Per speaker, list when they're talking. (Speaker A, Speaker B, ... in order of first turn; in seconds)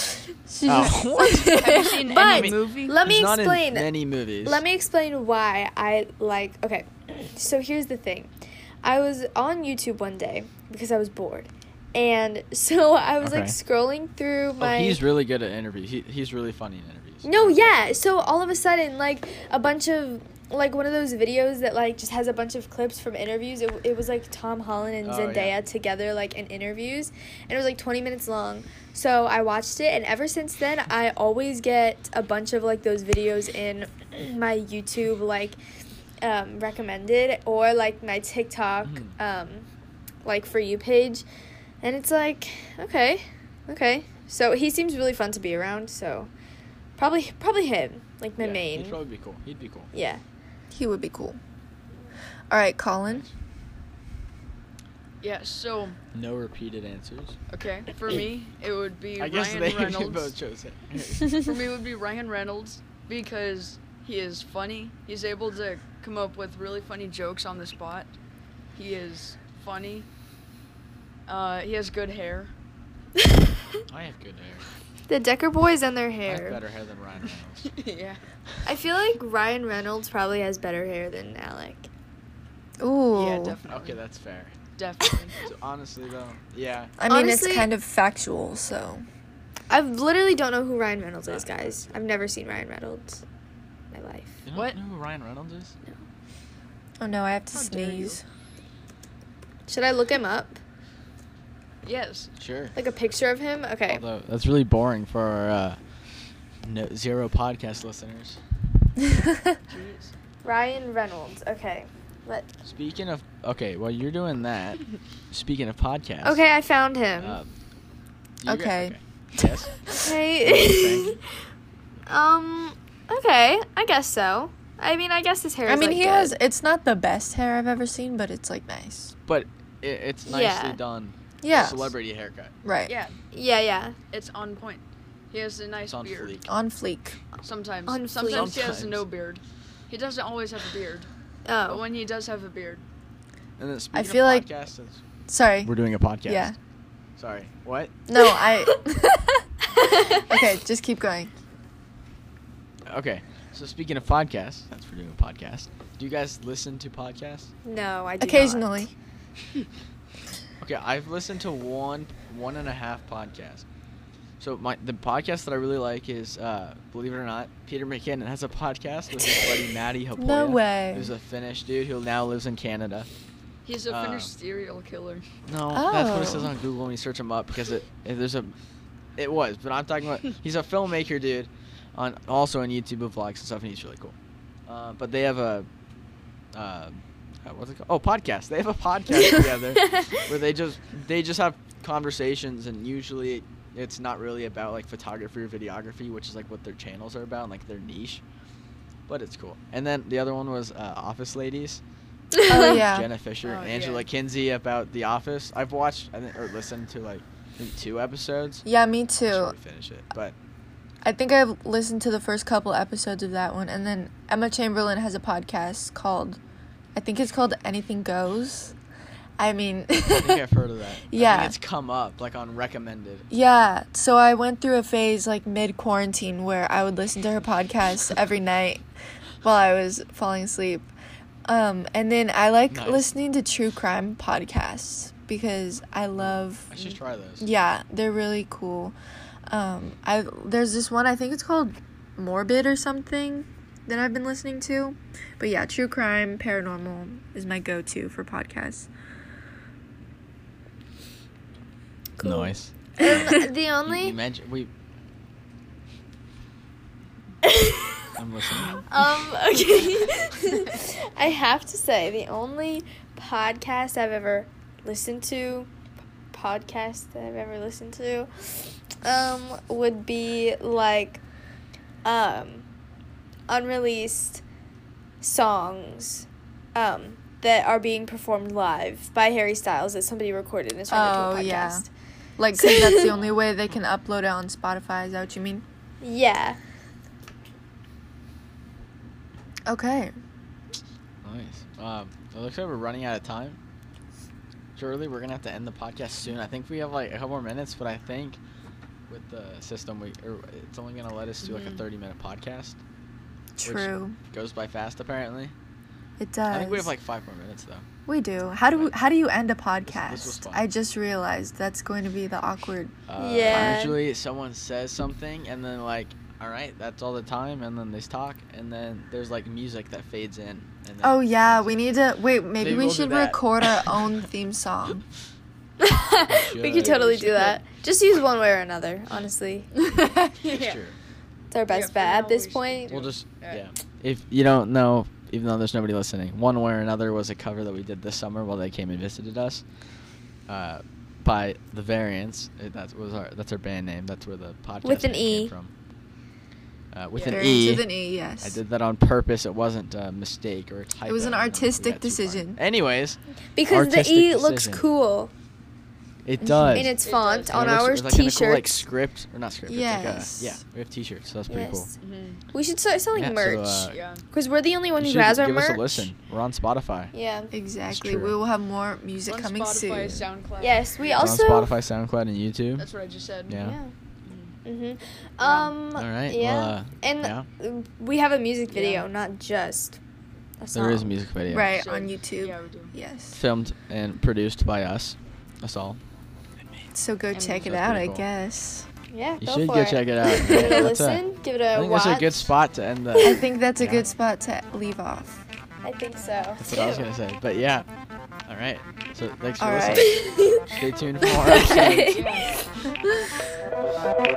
Speaker A: 0.5-2.0, 50.7-51.4, 52.5-53.3, 82.8-83.6, 87.0-89.0, 97.0-98.2, 118.4-120.1, 125.7-129.1, 131.4-131.9, 132.6-132.9, 136.4-137.2, 143.9-144.5, 145.3-145.7, 146.2-146.6, 148.1-149.3, 150.2-151.3, 158.2-158.9, 170.2-171.1, 175.7-176.5, 202.5-203.1, 208.7-209.6, 211.0-216.4, 216.9-218.7, 219.4-220.4, 221.1-221.6, 223.3-228.8, 229.4-230.9, 231.5-236.9, 237.4-239.0, 239.5-248.9, 253.0-253.5, 280.9-281.9, 282.4-285.6, 289.7-290.1, 303.6-304.2, 306.2-306.9, 308.1-312.9, 321.0-325.0, 347.3-348.6, 351.1-352.6, 356.4-356.9, 359.7-360.6, 367.5-370.3, 381.5-383.4, 386.9-388.9, 393.2-395.4, 399.6-400.1
Speaker B: 0.7-1.6, 2.2-4.6, 13.2-13.6, 14.6-18.4, 25.0-25.6, 38.8-39.1, 48.4-49.9, 56.1-57.4, 59.2-61.4, 73.9-74.7, 76.2-77.7, 83.7-84.6, 85.4-87.0, 91.3-92.0, 94.5-95.7, 102.4-102.8, 103.9-105.8, 106.6-108.4, 112.7-116.4, 117.2-117.5, 118.4-119.8, 120.4-121.2, 129.3-132.5, 135.9-136.5, 138.2-139.1, 143.6-145.0, 145.6-146.5, 147.2-147.9, 152.9-157.5, 160.6-163.7, 164.4-173.1, 173.9-174.3, 175.5-178.5, 179.2-184.2, 184.7-185.7, 186.5-198.2, 199.1-201.8, 202.6-208.7, 209.3-210.3, 220.1-223.2, 232.7-233.2, 236.2-237.5, 252.2-254.7, 258.2-258.9, 291.2-293.6, 294.8-298.4, 299.1-302.8, 303.6-305.5, 306.5-307.9, 309.9-310.6, 313.1-321.9, 322.6-324.1, 326.3-327.3, 330.5-330.9, 332.9-339.6, 340.5-345.7, 346.9-354.9, 356.2-361.9, 363.1-364.0, 365.0-367.1, 367.9-368.4, 371.2-372.9, 373.5-373.8, 375.9-377.5, 380.7-381.7, 383.3-386.0, 387.6-388.2, 389.4-391.2, 391.7-394.1, 396.6-397.9, 398.5-402.2
Speaker C: 1.2-3.0, 55.2-56.0, 57.5-60.3, 61.3-68.1, 68.8-70.1, 71.3-72.5, 77.7-78.2, 83.1-84.0, 84.8-85.5, 97.5-98.2, 101.8-102.3, 109.7-110.1, 132.9-133.2, 134.1-136.4, 137.4-141.1, 141.7-142.8, 173.7-175.3, 203.4-204.1, 301.4-301.8, 326.9-327.6, 330.4-330.8, 331.7-333.6, 347.1-347.6, 357.0-357.7, 362.0-362.4, 363.9-364.2, 369.3-371.2, 372.8-373.7, 374.2-374.6, 375.4-375.8, 378.7-379.1, 381.7-382.9, 387.3-387.6, 402.1-402.6
Speaker D: 2.0-3.9, 4.4-8.3, 8.8-15.0, 17.2-35.6, 36.2-39.7, 40.2-41.3, 41.8-46.3, 47.0-49.0, 49.9-50.2, 75.1-76.6, 78.7-81.9, 87.0-87.7, 89.7-93.2, 93.9-94.4, 99.7-100.6, 102.8-104.0, 110.4-112.5, 116.2-117.4, 120.0-121.2, 122.1-126.4, 130.3-130.8, 133.3-134.0, 137.9-138.6, 141.4-141.8, 149.8-150.3, 157.6-158.9, 189.3-190.1, 252.4-254.2, 257.4-258.1, 258.9-265.7, 266.3-271.2, 272.0-272.7, 273.5-274.4, 275.2-281.9, 282.6-283.2, 286.0-286.6, 313.2-314.0, 325.8-329.7, 331.5-333.1, 344.8-345.5, 353.5-355.3, 356.7-358.9, 361.5-361.9, 362.5-366.1, 367.1-367.5, 370.6-371.8, 373.6-373.9, 374.6-380.0, 380.6-381.1, 389.1-392.5, 395.8-397.1, 400.0-400.7, 401.4-402.6